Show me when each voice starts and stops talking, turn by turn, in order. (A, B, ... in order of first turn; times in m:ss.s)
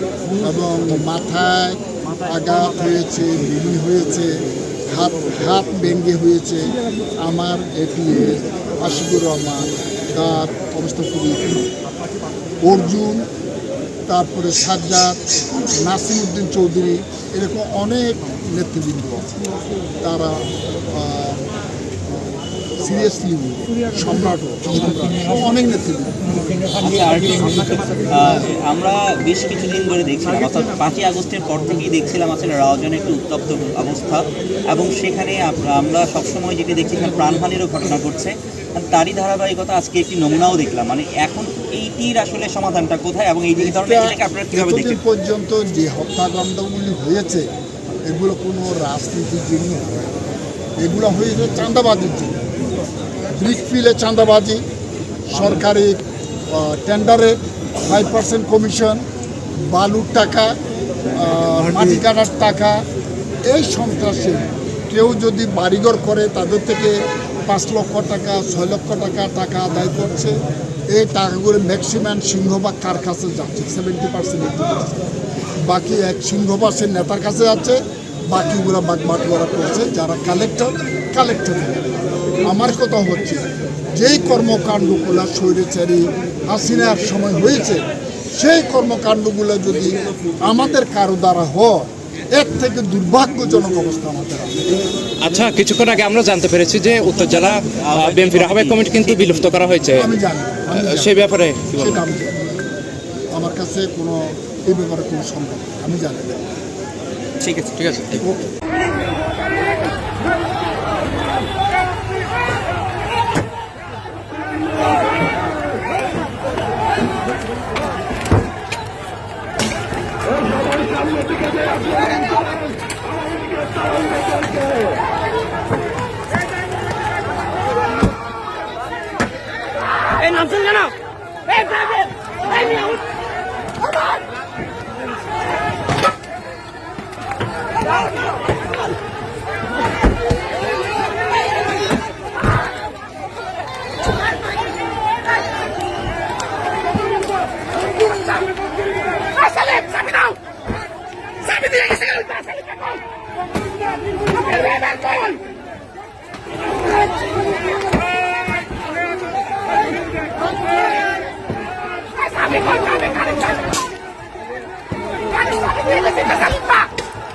0:00.3-0:11.7 A
0:12.6-0:13.3 A
0:14.1-0:15.2 A
0:15.8-0:19.3 A
0:20.0-0:21.5 A
0:22.8-0:26.2 A
0:26.8-0:45.0 B
0:43.6-0:47.5 A
0:48.1-0:50.2 A
0:50.8-0:52.4 A
0:53.3-0:54.6 A
0:55.3-0:59.0 A
0:59.7-1:00.6 A
1:01.1-1:02.8 A
1:03.5-1:10.4 A
1:10.9-1:15.0 A
1:15.7-1:17.8 A
1:18.3-1:34.6 A
1:35.2-1:40.1 C
1:37.1-1:39.8 B
1:39.9-1:42.6 A
1:40.7-1:42.0 C
1:43.4-1:46.4 A
1:47.4-1:48.1 B
1:47.8-1:48.1 C
1:48.2-1:48.5 A
2:29.5-2:30.3 D
2:31.5-2:32.8 D
2:34.5-2:35.4 D
2:42.2-2:43.6 D
2:45.4-2:46.9 D